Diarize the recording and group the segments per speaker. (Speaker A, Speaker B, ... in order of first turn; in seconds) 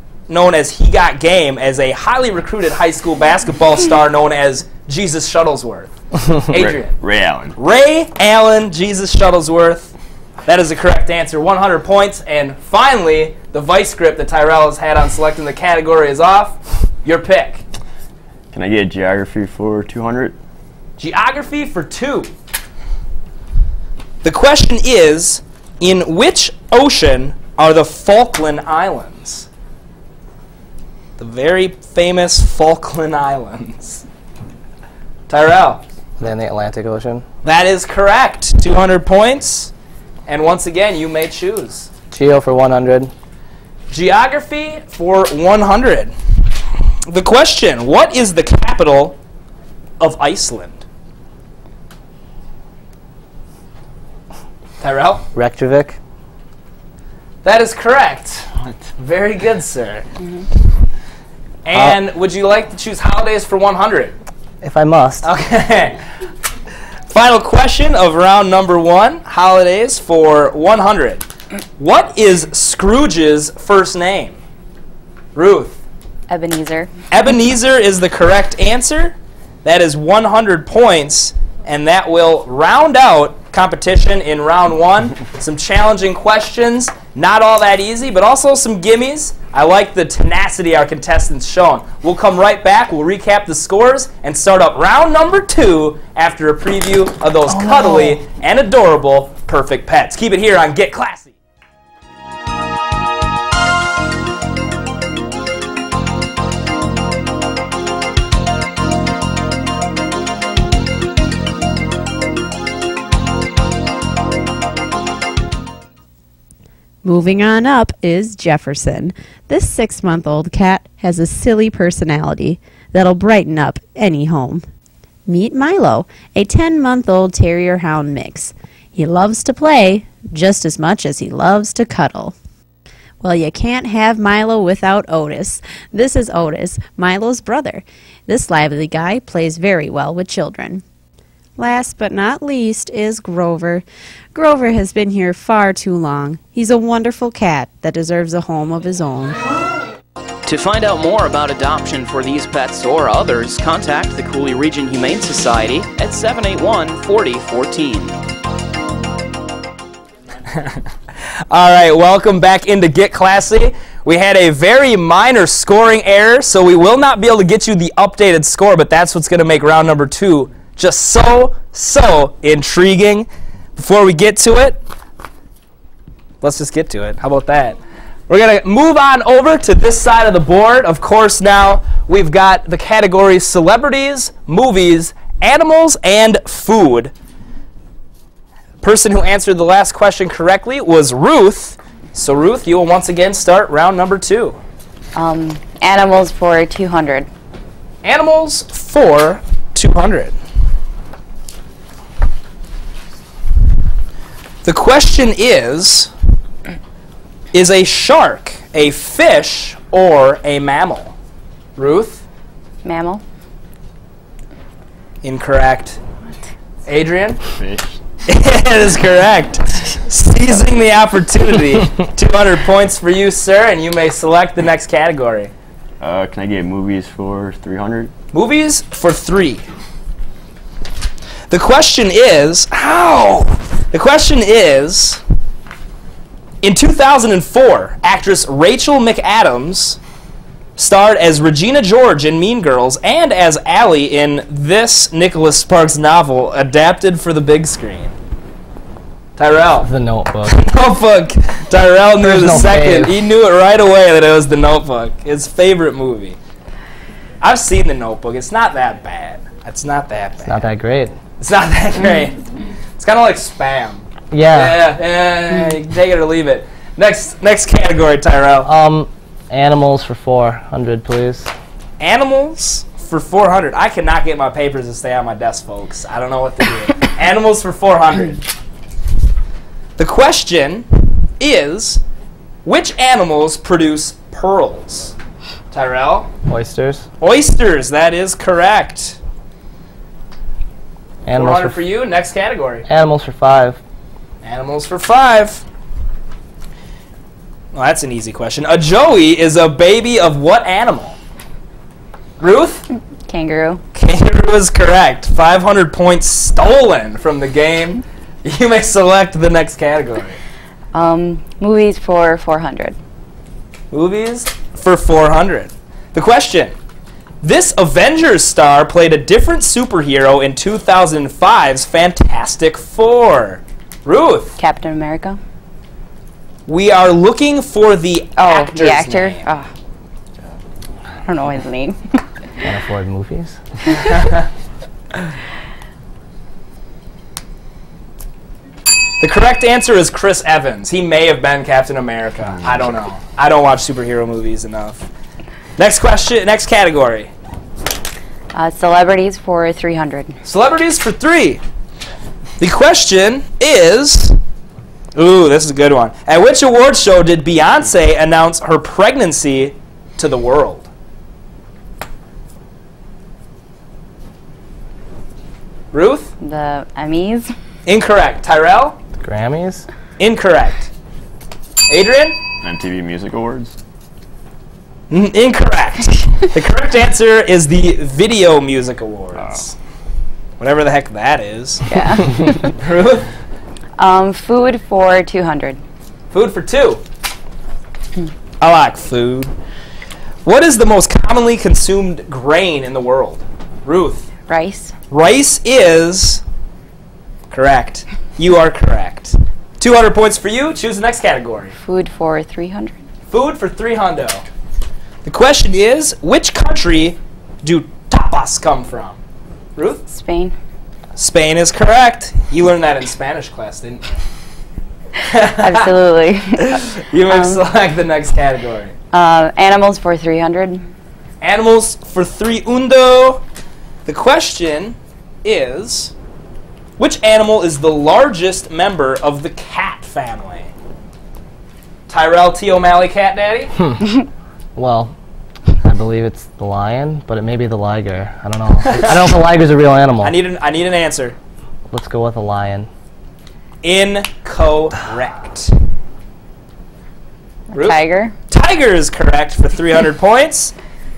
Speaker A: 0.3-7.0, 7.5-9.9, 10.4-17.6, 21.0-22.3, 24.2-29.5, 31.2-34.0, 35.3-35.8, 37.4-39.7, 40.3-41.9, 43.9-46.1, 47.1-49.2, 50.0-50.8, 54.8-55.2, 57.4-60.0, 61.6-64.1, 65.2-66.0, 67.1-71.2, 71.8-74.4, 75.3-75.8, 77.1-101.3, 160.5-160.8, 161.5-174.8, 176.4-187.1, 188.8-194.6, 198.0-200.3, 204.6-206.1, 207.5-211.1, 211.8-212.2, 215.2-216.0, 216.8-217.4, 218.3-225.5, 228.3-229.6, 231.5-235.2, 236.6-240.0, 240.8-248.1, 249.4-249.9, 250.4-256.4, 257.4-260.6, 261.4-262.4, 263.0-268.7, 272.0-278.4, 280.0-282.0, 282.6-285.1, 285.7-286.3, 287.2-289.2, 291.3-292.9, 294.4-295.6, 297.7-301.2, 302.4-302.9, 303.9-310.4, 313.9-316.7, 317.4-324.6, 326.7-329.4, 334.1-334.4, 339.2-345.1, 345.8-347.3, 350.4-351.6, 352.6-354.4, 355.1-360.9, 365.9-366.3, 367.9-369.0, 370.2-370.9, 371.9-372.4, 375.1-379.8, 380.6-383.3, 386.3-387.0, 388.6-389.5, 390.4-394.3, 395.1-396.4, 397.5-401.7, 403.3-404.4, 405.2-409.2, 409.8-410.1, 411.1-414.0, 415.3-415.8, 416.7-418.9, 421.4-423.4, 424.1-426.1, 427.0-430.7, 432.1-433.7, 438.8-439.2, 440.2-441.4, 443.8-445.7, 447.7-450.7
Speaker B: 6.5-7.5, 18.5-20.4, 217.6-218.0, 226.0-228.1, 372.6-373.8
Speaker C: 36.2-37.2, 42.1-43.1, 55.3-56.0, 64.6-65.2, 97.5-98.2, 249.8-250.6, 252.2-253.2, 260.4-261.1, 264.3-264.8, 268.6-271.5, 286.5-287.0, 291.2-291.8, 292.9-293.8, 332.6-333.6, 369.2-369.8, 434.8-435.1, 435.8-440.4, 441.9-442.9
Speaker D: 76.3-76.9, 195.1-197.3, 212.8-213.2, 303.2-303.8, 310.9-312.9, 324.6-325.4, 328.4-329.7, 331.2-332.2, 348.5-350.4, 366.4-367.5, 381.9-382.7, 384.0-385.8, 394.5-394.9, 401.8-402.9, 410.1-410.5, 415.4-417.6, 419.1-420.9, 447.7-448.3
Speaker E: 117.0-124.6, 125.2-132.3, 133.2-140.8, 141.6-149.4
Speaker F: 150.4-158.1